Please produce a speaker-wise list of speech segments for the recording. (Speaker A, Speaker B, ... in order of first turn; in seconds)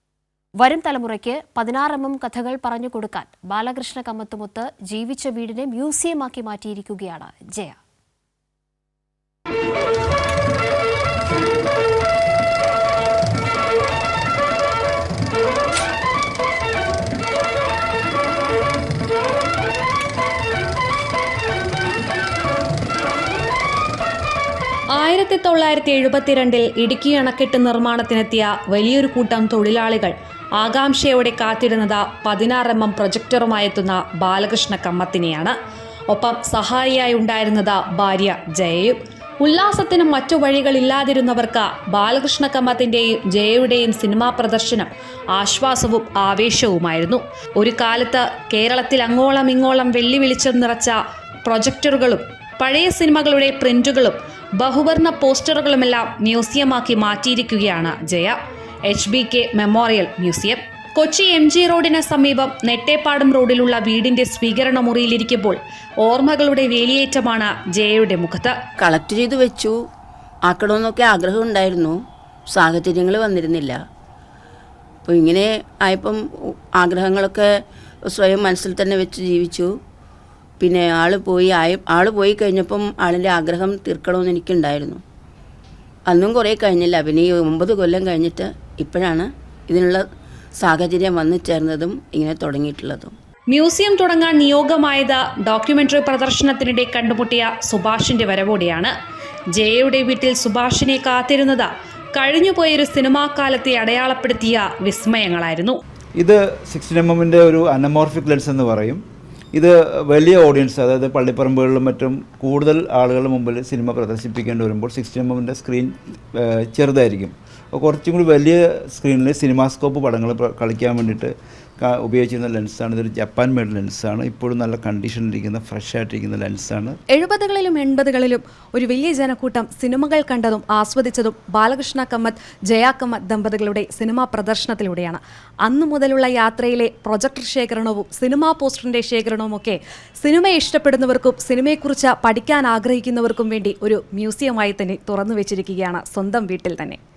Speaker A: 0.6-7.8
Speaker B: 24.9-35.6, 36.1-68.6, 93.5-98.9, 99.5-105.8, 131.6-132.2, 133.9-134.3, 136.2-137.9
Speaker C: 68.8-69.8, 70.5-72.0, 72.5-73.8, 75.1-77.5, 78.1-79.8, 80.6-85.0, 86.1-90.0, 90.6-93.1
Speaker D: 106.2-109.0, 109.5-127.0
Speaker E: 127.1-147.0